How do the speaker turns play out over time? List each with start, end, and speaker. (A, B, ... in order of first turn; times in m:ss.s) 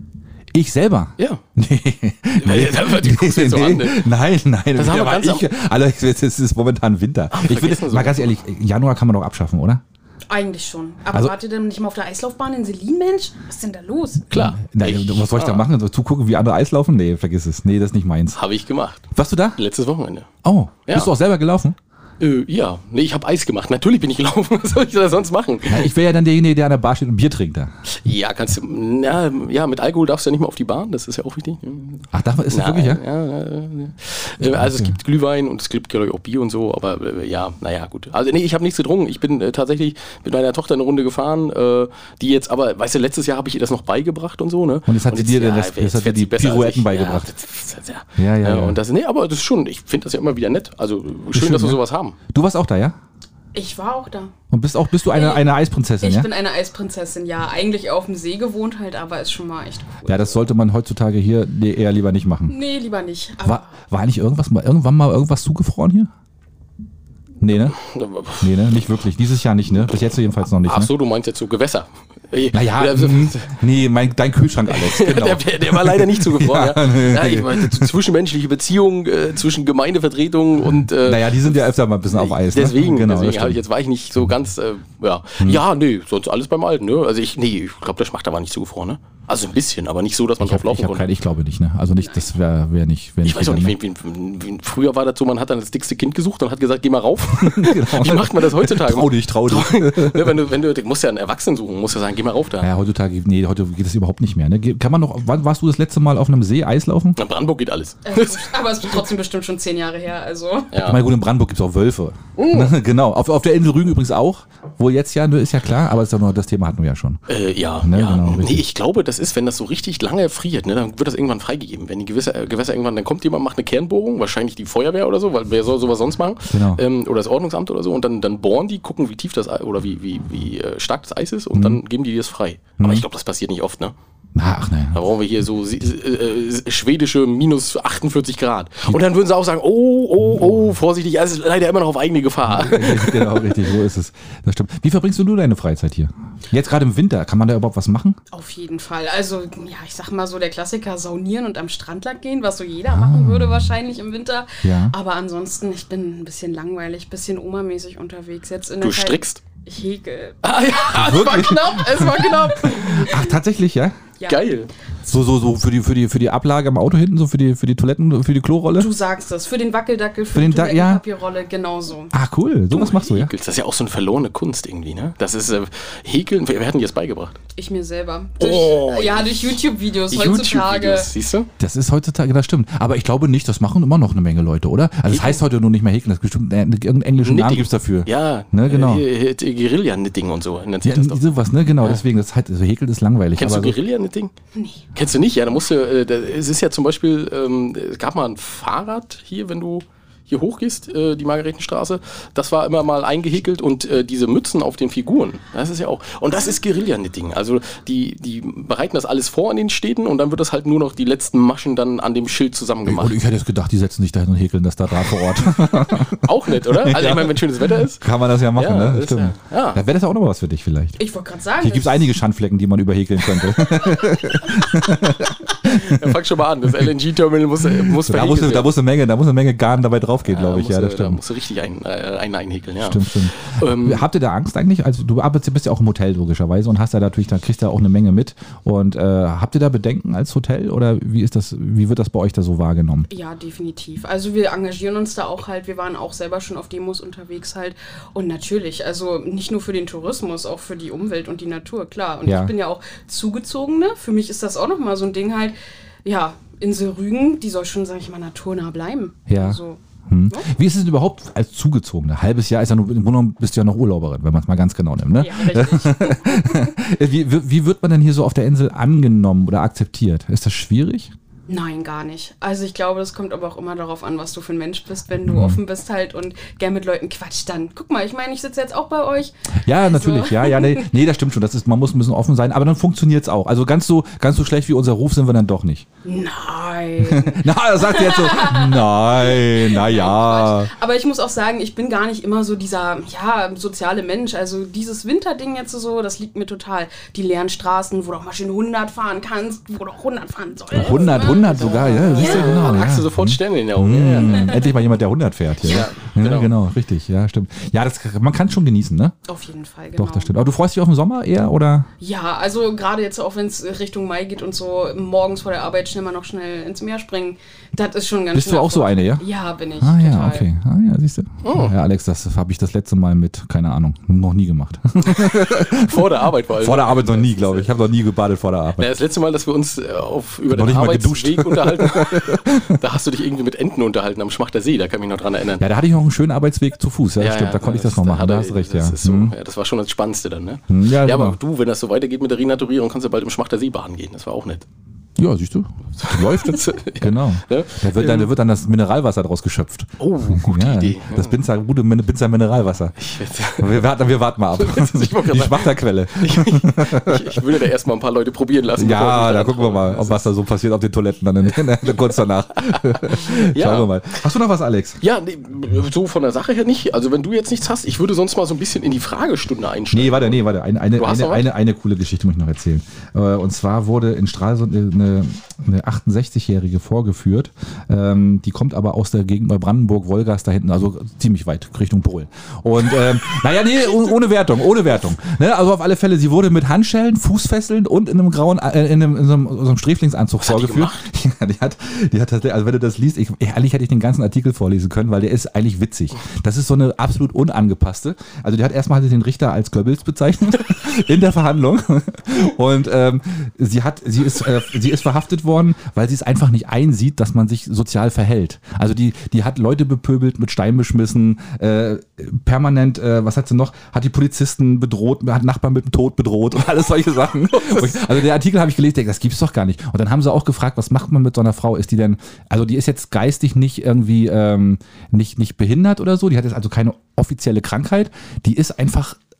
0:00.5-0:09.8 A
0:02.4-0:04.0 B
0:04.8-0:05.5 B
0:07.3-0:08.3 B
0:10.3-0:14.3 C
0:14.3-0:15.6 B
0:14.3-0:18.4 A
0:18.3-0:20.3 B
0:19.1-0:19.6 A
0:20.4-0:21.8 A
0:22.2-0:25.9 B
0:25.7-0:27.7 A
0:27.9-0:52.2 B
0:32.1-0:33.0 A
0:34.4-0:34.9 A
0:44.9-0:47.3 A
0:48.2-0:48.8 A
0:51.3-0:53.0 A
0:53.5-0:54.3 C
0:54.5-0:56.3 A
0:55.1-1:00.3 C
1:00.0-1:02.5 A
1:02.5-1:03.7 C
1:03.4-1:06.1 A
1:07.4-1:07.8 A
1:07.8-1:08.5 B
1:08.4-1:10.9 A
1:10.6-1:13.5 B
1:12.5-1:17.9 A
1:14.7-1:21.6 B
1:21.0-1:23.6 A
1:22.1-1:31.0 B
1:30.4-1:33.7 A
1:32.0-1:32.2 C
1:33.2-1:42.7 B
1:37.4-1:40.4 A
1:42.6-1:47.2 A
1:47.2-1:48.5 B
1:48.0-1:50.8 C
1:50.7-1:51.0 B
1:50.8-1:57.2 A
1:52.4-1:52.7 B
1:57.3-2:13.9 B
1:57.8-1:58.6 A
2:06.5-2:06.8 A
2:11.5-2:11.8 A
2:12.8-2:13.0 A
2:14.3-2:15.0 A
2:14.9-2:23.6 B
2:22.5-2:28.2 A
2:28.3-2:43.3 C
2:32.9-2:33.7 A
2:34.6-2:34.9 A
2:38.8-2:39.4 B
2:40.4-2:43.1 B
2:40.9-2:44.0 A
2:44.2-2:44.5 C
2:44.2-2:44.7 B
2:45.1-2:48.9 A
2:48.8-2:52.1 C
2:50.3-2:51.0 A
2:52.1-2:53.3 A
2:52.7-2:57.4 B
2:57.6-3:01.1 C
2:58.4-2:59.6 B
3:00.1-3:01.5 B
3:01.6-3:09.0 A
3:05.1-3:05.4 B
3:07.2-3:11.2 B
3:10.8-3:13.8 A
3:13.4-3:14.3 B
3:14.5-3:14.8 C
3:14.9-3:33.1 B
3:32.8-3:41.0 A
3:36.2-3:39.8 B
3:41.0-3:42.2 C
3:41.6-3:46.2 A
3:45.6-3:48.7 B
3:47.7-3:51.2 A
3:50.2-3:54.0 B
3:52.8-4:03.1 A
4:03.1-4:19.8 C
4:12.2-4:12.5 A
4:19.3-4:31.1 A
4:25.2-4:26.7 C
4:31.5-4:40.9 C
4:35.2-4:35.6 A
4:39.6-4:45.8 A
4:46.0-5:02.9 C
4:47.0-4:50.7 A
5:00.7-5:09.1 A
5:00.8-5:04.6 B
5:04.2-5:04.5 C
5:05.6-5:06.5 B
5:09.3-5:10.3 C
5:10.0-5:11.9 A
5:12.0-5:20.5 C
5:18.3-5:19.2 A
5:19.8-5:28.9 A
5:21.4-5:21.7 B
5:25.0-5:27.7 B
5:28.8-5:35.7 B
5:30.5-5:32.8 A
5:35.6-5:39.3 A
5:37.2-5:44.6 B
5:40.7-5:41.4 A
5:45.2-5:53.0 A
5:46.0-5:48.3 B
5:50.0-5:51.4 B
5:53.0-5:53.8 B
5:53.6-5:57.4 A
5:54.6-6:00.2 B
5:58.8-6:05.0 A
6:02.6-6:03.9 B
6:05.0-6:10.4 B
6:09.9-7:09.2 A
6:11.0-6:11.5 B
6:30.4-6:31.0 B
6:57.5-6:58.1 B